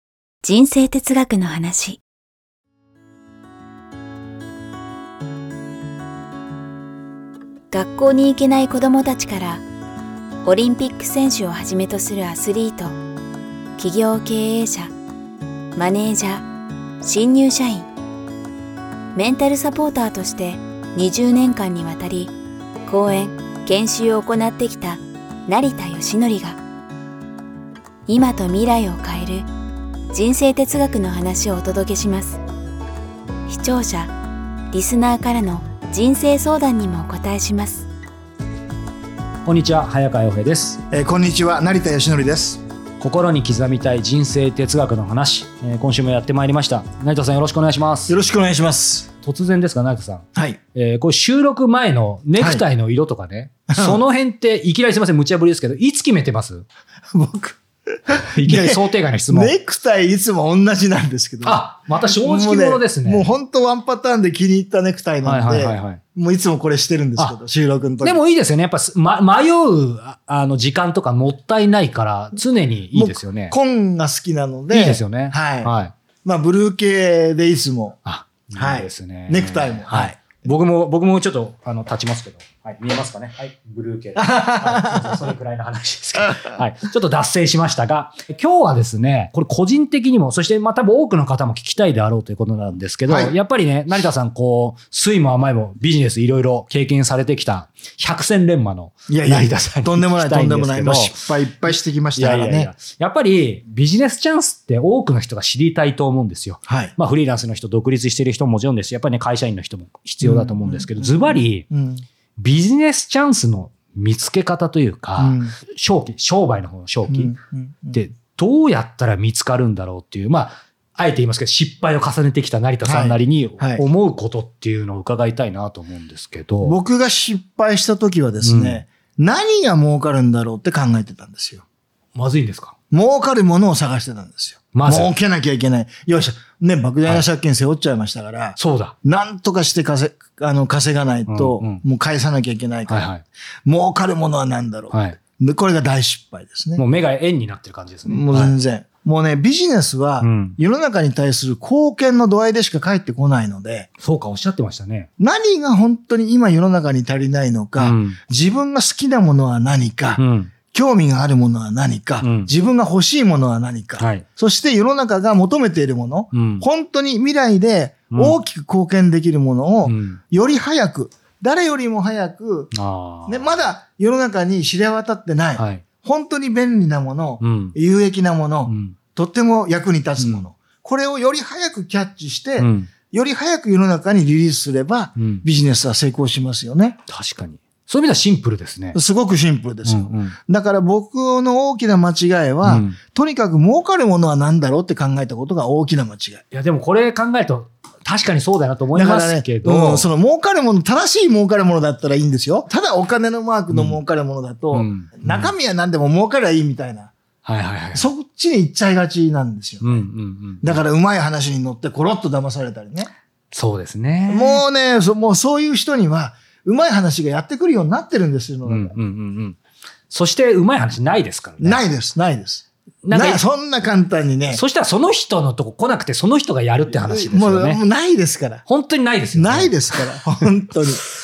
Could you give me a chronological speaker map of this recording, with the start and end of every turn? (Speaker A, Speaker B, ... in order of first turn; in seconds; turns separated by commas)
Speaker A: 0.4-2.0, Speaker A: 7.7-9.7, Speaker A: 10.4-13.0, Speaker A: 13.8-14.9, Speaker A: 15.7-16.5, Speaker A: 17.0-17.9, Speaker A: 19.1-22.3, Speaker A: 22.9-26.6, Speaker A: 28.1-29.5, Speaker A: 30.1-32.4, Speaker A: 33.5-34.1, Speaker A: 34.7-37.9, Speaker B: 39.5-40.8, Speaker C: 40.9-42.6, Speaker B: 43.0-48.2, Speaker C: 48.1-49.1, Speaker B: 49.2-56.6, Speaker C: 52.4-52.6, Speaker C: 53.7-54.0, Speaker C: 57.1-68.2, Speaker B: 58.2-59.5, Speaker B: 61.5-63.3, Speaker B: 65.2-66.0, Speaker B: 68.0-73.6, Speaker C: 72.9-75.7, Speaker B: 74.7-76.0, Speaker C: 76.2-78.0, Speaker B: 78.0-111.7, Speaker C: 78.6-80.4, Speaker C: 84.2-85.3, Speaker C: 86.2-86.6, Speaker C: 93.1-93.3, Speaker C: 99.1-102.7, Speaker C: 106.7-107.0, Speaker C: 110.2-112.0, Speaker B: 112.4-117.4, Speaker C: 115.2-115.6, Speaker C: 117.1-118.0, Speaker B: 117.9-126.8, Speaker C: 122.8-123.8, Speaker C: 126.6-131.7, Speaker B: 128.4-128.9, Speaker B: 132.2-132.8, Speaker C: 132.9-143.1, Speaker B: 134.7-135.1, Speaker B: 137.0-137.3, Speaker B: 138.6-138.9, Speaker B: 141.3-141.8, Speaker B: 142.9-143.2, Speaker C: 143.7-146.8, Speaker B: 144.9-145.2, Speaker B: 146.8-148.6, Speaker C: 148.1-153.9, Speaker B: 150.2-150.6, Speaker B: 154.0-155.1, Speaker C: 155.2-172.7, Speaker B: 157.8-158.2, Speaker B: 160.2-160.5, Speaker B: 162.2-162.5, Speaker B: 164.0-164.2, Speaker B: 166.3-166.7, Speaker B: 168.1-168.4, Speaker B: 169.8-170.2, Speaker B: 172.7-173.6, Speaker C: 173.3-187.0, Speaker B: 175.6-175.8, Speaker B: 177.4-177.8, Speaker B: 178.7-179.0, Speaker B: 180.2-180.5, Speaker B: 182.6-182.9, Speaker B: 185.2-185.4, Speaker B: 187.1-189.0, Speaker C: 188.9-196.4, Speaker B: 189.8-190.4, Speaker B: 192.7-193.0, Speaker B: 196.5-200.1, Speaker C: 198.9-207.1, Speaker B: 203.7-204.0, Speaker B: 204.7-205.6, Speaker B: 207.4-208.1, Speaker C: 207.9-210.1, Speaker B: 209.8-210.8, Speaker C: 210.6-213.1, Speaker B: 213.5-214.7, Speaker C: 214.3-219.0, Speaker B: 218.7-219.6, Speaker B: 220.1-221.9, Speaker C: 221.6-224.6, Speaker B: 223.0-223.5, Speaker B: 224.5-227.8, Speaker C: 226.9-228.7, Speaker B: 228.7-230.0, Speaker C: 229.3-231.0